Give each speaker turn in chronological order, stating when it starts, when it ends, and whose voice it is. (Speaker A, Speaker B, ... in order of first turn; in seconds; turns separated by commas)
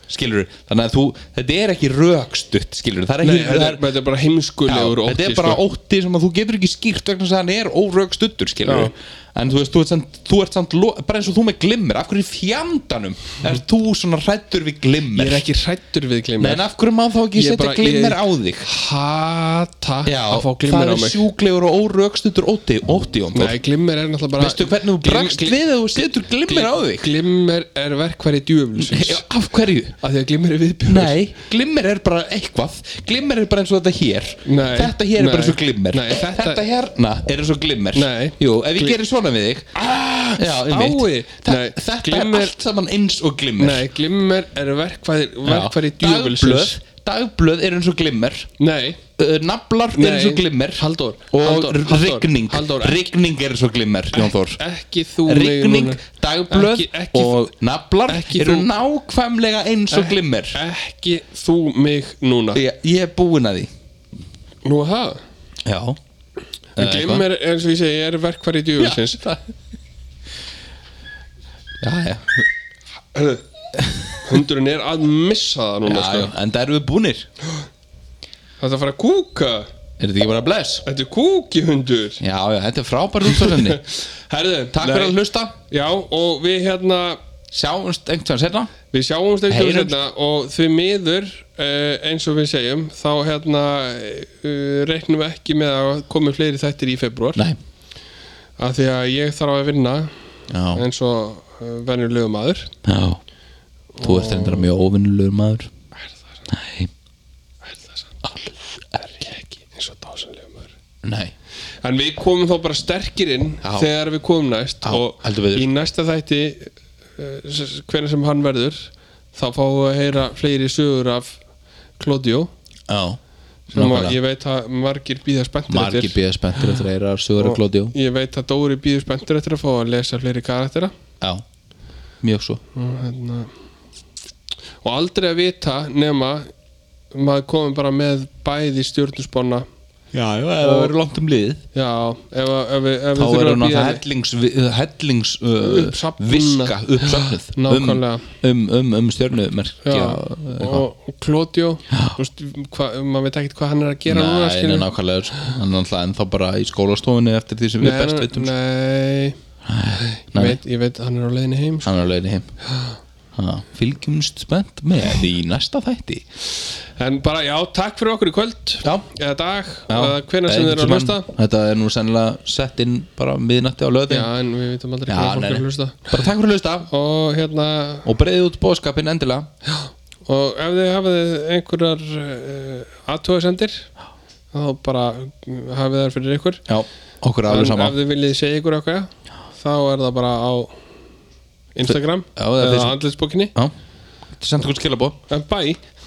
Speaker A: 0.1-3.8, Speaker B: 3.2-5.6, Speaker A: 4.7-15.4, Speaker B: 8.6-8.9, Speaker B: 15.1-16.6, Speaker A: 16.4-18.7, Speaker B: 17.3-21.2, Speaker A: 20.0-23.6, Speaker B: 23.3-29.2, Speaker A: 24.4-27.1, Speaker A: 28.8-29.9, Speaker B: 30.0-31.2, Speaker A: 30.9-39.7, Speaker B: 34.5-36.6, Speaker B: 37.9-39.0, Speaker B: 39.7-42.5, Speaker A: 40.4-43.9, Speaker B: 43.6-46.8, Speaker A: 45.4-48.5, Speaker B: 48.6-49.0, Speaker A: 49.2-54.6, Speaker B: 49.9-53.0, Speaker B: 54.1-57.4, Speaker A: 55.2-60.6, Speaker B: 58.1-58.7, Speaker B: 59.9-62.6, Speaker A: 62.5-63.7, Speaker B: 64.6-65.2, Speaker A: 65.6-66.0, Speaker A: 66.8-67.2, Speaker B: 66.8-69.4, Speaker A: 68.8-69.4, Speaker A: 71.8-72.5, Speaker B: 73.1-73.4, Speaker A: 73.8-74.2, Speaker B: 74.2-76.3, Speaker A: 75.8-77.3, Speaker B: 78.6-79.7, Speaker A: 80.0-80.8, Speaker B: 80.8-82.2, Speaker A: 82.2-83.8, Speaker B: 83.2-87.2, Speaker A: 84.7-85.5, Speaker A: 87.5-88.7, Speaker B: 88.9-97.5, Speaker A: 89.5-89.9, Speaker B: 98.6-100.1, Speaker A: 100.5-100.8, Speaker B: 100.7-102.7, Speaker A: 102.8-103.2, Speaker B: 104.0-104.7, Speaker A: 104.0-105.7, Speaker A: 106.5-106.9, Speaker B: 107.7-108.2, Speaker B: 108.9-110.7, Speaker A: 111.0-111.3, Speaker B: 111.8-121.4, Speaker A: 113.6-113.9, Speaker A: 114.8-115.7, Speaker B: 122.0-122.5, Speaker A: 122.9-123.2, Speaker A: 123.7-124.2, Speaker B: 123.7-126.8, Speaker A: 125.7-127.9, Speaker B: 127.4-130.9, Speaker A: 132.2-132.6, Speaker B: 132.7-133.5, Speaker B: 134.8-136.5, Speaker B: 137.1-139.7, Speaker A: 140.1-141.6, Speaker B: 140.6-140.9, Speaker B: 141.7-144.0, Speaker A: 143.1-150.8, Speaker B: 145.6-148.2, Speaker B: 149.8-154.9, Speaker A: 151.9-152.2, Speaker A: 154.1-158.5, Speaker B: 157.8-159.4, Speaker A: 159.6-160.6, Speaker B: 159.9-161.9, Speaker A: 161.8-162.5, Speaker A: 163.3-166.2, Speaker B: 167.0-171.3, Speaker A: 169.9-174.3, Speaker B: 174.1-176.2, Speaker A: 175.1-176.9, Speaker B: 176.9-178.1, Speaker A: 178.0-179.5, Speaker B: 179.7-183.9, Speaker B: 184.5-186.6, Speaker A: 186.7-188.0, Speaker B: 187.5-190.7, Speaker B: 191.7-193.5, Speaker A: 191.9-193.0, Speaker A: 194.3-195.2, Speaker B: 195.3-195.8